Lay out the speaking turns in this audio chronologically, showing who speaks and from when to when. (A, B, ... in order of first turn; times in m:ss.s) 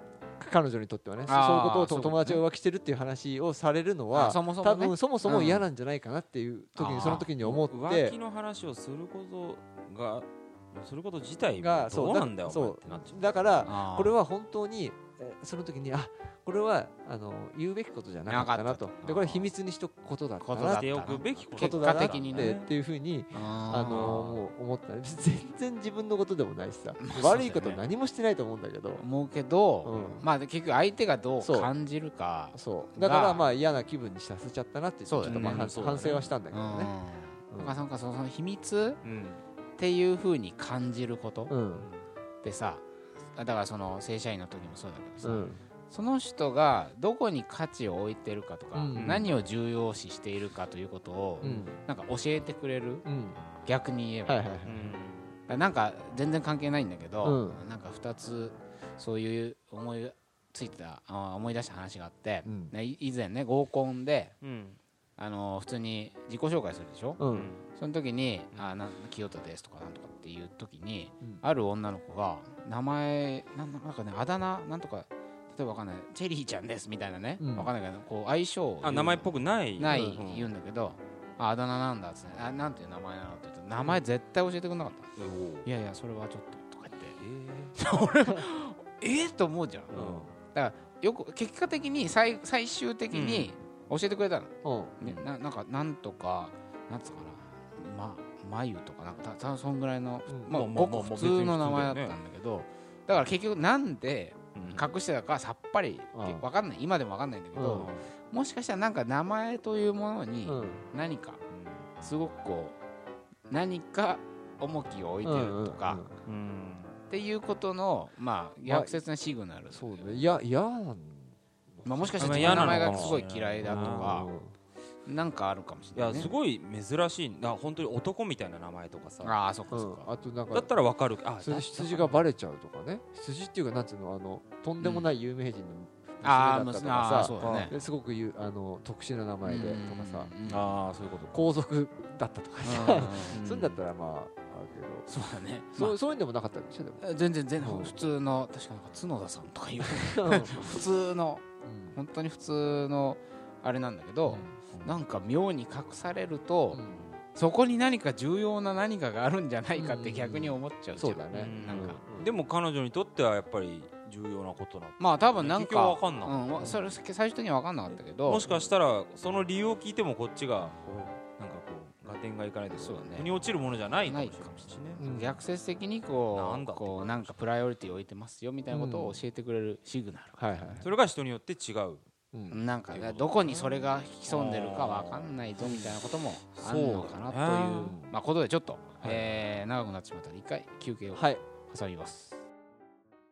0:00.4-0:08.1 A
0:01.3-0:02.4 B
0:04.1-0:05.6 B
0:06.8-0:07.3 B
0:07.0-0:13.7 C
0:11.5-0:20.8 A
0:13.6-0:14.2 B
0:18.3-0:19.3 B
0:19.0-0:19.4 C
0:20.4-0:22.6 B
0:20.6-0:22.7 C
0:21.5-0:29.0 A
0:23.3-0:24.4 B
0:23.9-0:24.2 C
0:27.0-0:27.8 B
0:29.0-0:33.5 B
0:29.8-0:30.3 A
0:31.4-0:31.7 A
0:32.5-0:36.9 A
0:35.0-0:35.7 B
0:35.2-0:36.3 C
0:36.5-0:39.0 B
0:37.5-0:37.8 A
0:39.0-0:39.4 C
0:39.8-0:41.5 B
0:41.5-0:41.8 A
0:41.7-0:42.0 C
0:42.4-0:53.0 B
0:45.2-0:45.6 A
0:48.7-0:49.3 A
0:48.9-0:49.3 C
0:51.4-0:51.8 A
0:53.0-0:53.4 A
0:53.6-0:54.5 B
0:54.3-0:54.8 A
0:54.6-0:55.3 C
0:55.5-1:04.3 B
0:57.2-0:57.6 A
1:02.4-1:02.7 A
1:04.4-1:04.8 C
1:05.2-1:07.2 B
1:07.2-1:07.5 A
1:07.3-1:07.7 C
1:07.7-1:25.1 B
1:17.4-1:17.7 A
1:18.8-1:20.5 C
1:19.9-1:20.2 A
1:25.2-1:25.7 C
1:25.6-1:27.2 B
1:27.2-1:27.7 C
1:27.7-1:30.0 B
1:29.9-1:30.3 C
1:30.0-1:30.3 A
1:30.5-1:51.4 B
1:33.1-1:33.6 C
1:34.6-1:34.9 A
1:40.5-1:42.1 C
1:44.5-1:44.9 C
1:46.1-1:46.4 A
1:47.5-1:47.9 A
1:47.6-1:48.1 C
1:50.4-1:50.8 A
1:51.5-1:51.9 C
1:52.0-1:52.8 B
1:53.5-1:56.0 B
1:55.2-1:56.1 A
1:56.2-1:57.0 C
1:57.1-2:00.4 B
1:58.6-1:59.0 A
1:59.7-2:04.5 A
2:01.8-2:04.3 B
2:02.2-2:04.2 C
2:05.0-2:06.3 B
2:05.9-2:09.3 C
2:09.2-2:10.1 B
2:09.7-2:10.8 A
2:10.5-2:12.2 C
2:11.4-2:20.3 A
2:16.2-2:17.7 B
2:17.4-2:17.7 C
2:19.4-2:20.7 B
2:20.4-2:21.5 C
2:21.3-2:25.1 A
2:22.6-2:23.4 B
2:23.3-2:23.8 C
2:25.1-2:26.0 B
2:25.7-2:27.0 A
2:27.0-2:36.8 B
2:27.6-2:28.0 A
2:29.8-2:30.6 A
2:31.6-2:32.0 A
2:34.3-2:34.6 A
2:34.7-2:35.0 C
2:36.7-2:37.0 A
2:36.9-2:37.2 C
2:37.3-2:42.0 B
2:39.7-2:42.3 A
2:41.3-2:46.9 C
2:45.0-2:48.5 B
2:47.9-2:55.0 C
2:52.7-2:53.3 B
2:54.0-3:00.8 B
2:55.0-2:55.4 A
2:56.3-2:57.3 C
2:58.7-2:59.2 A
3:00.4-3:00.8 A
3:00.8-3:02.0 C
3:02.3-3:02.6 A
3:02.5-3:12.4 B
3:02.9-3:08.1 C
3:11.1-3:11.4 A